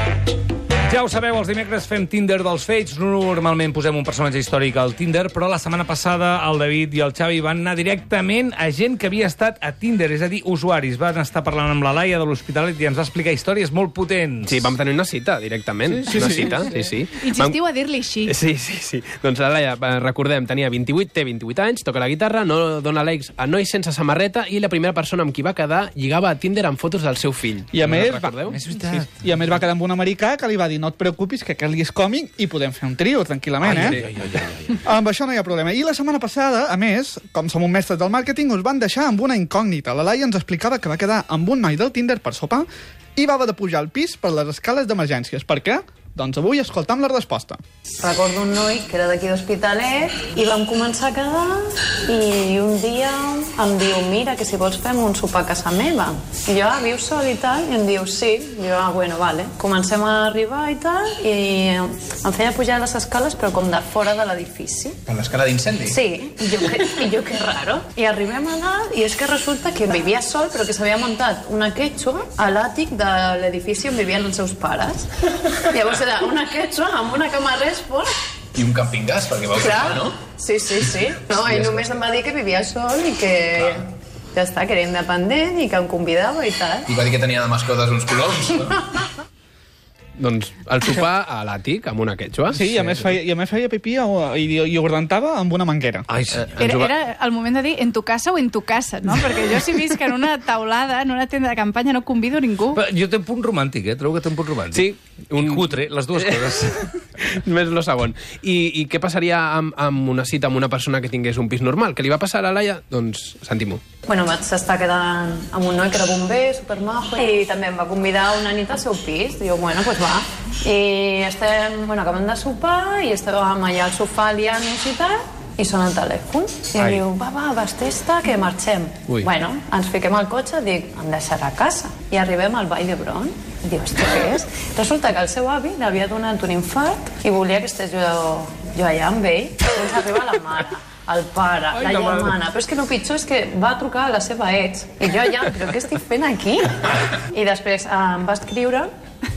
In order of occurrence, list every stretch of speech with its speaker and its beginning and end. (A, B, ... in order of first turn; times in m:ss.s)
0:00.9-0:14.7 A
0:14.4-0:17.6 B
0:15.9-0:16.7 A
0:16.1-0:16.6 C
0:17.2-0:18.3 C
0:18.3-0:28.6 B
0:27.7-0:34.0 D
0:28.5-0:29.1 A
0:33.6-0:34.4 B
0:33.8-0:34.6 A
0:34.8-0:47.6 D
0:48.0-1:05.0 E
1:05.1-1:06.0 F
1:05.9-1:18.1 E
1:18.5-1:20.2 F
1:19.6-1:26.9 E
1:26.9-1:29.1 F
1:30.2-1:33.1 B
1:32.5-1:36.1 D
1:36.1-1:36.6 A
1:36.4-1:36.9 B
1:36.6-1:42.8 C
1:42.8-1:46.8 A
1:44.7-1:53.8 B
1:54.1-2:28.9 E